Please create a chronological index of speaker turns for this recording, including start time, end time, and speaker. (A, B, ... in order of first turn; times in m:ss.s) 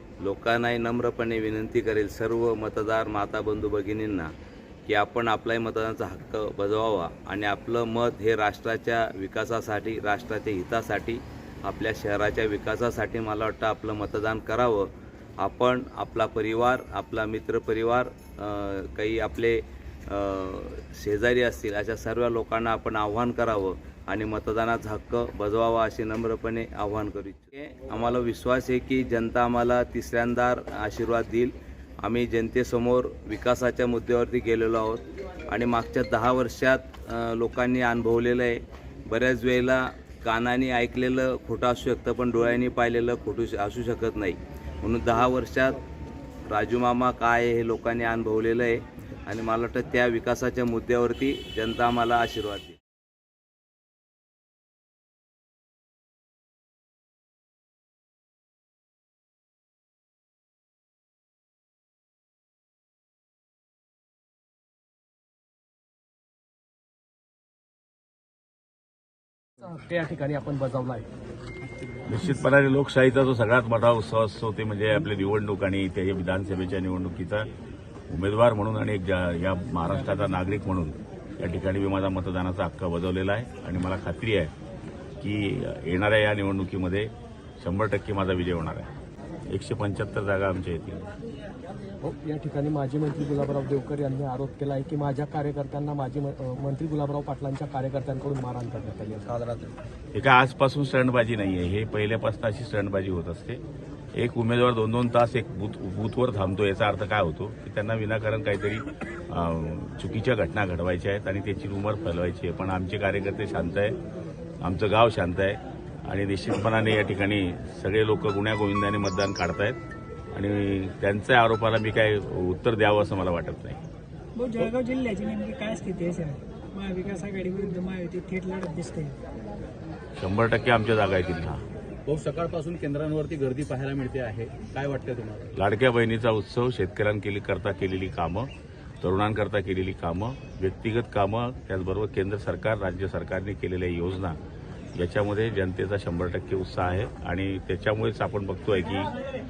0:00.2-0:04.3 A
0:04.9-0:45.8 A
0:46.5-0:52.8 A
1:09.7-1:11.0 B
1:12.0-1:17.5 C
1:18.1-1:24.5 C
1:25.2-1:28.9 C
1:29.5-1:31.1 C
1:32.0-1:39.6 B
1:40.1-1:43.6 C
1:44.1-1:54.0 C
1:54.6-1:59.8 C
2:00.3-2:03.8 C
2:04.4-2:09.2 D
2:10.2-2:11.6 C
2:12.1-2:15.5 E
2:15.5-2:18.5 C
2:19.0-2:24.4 C
2:25.0-2:29.1 C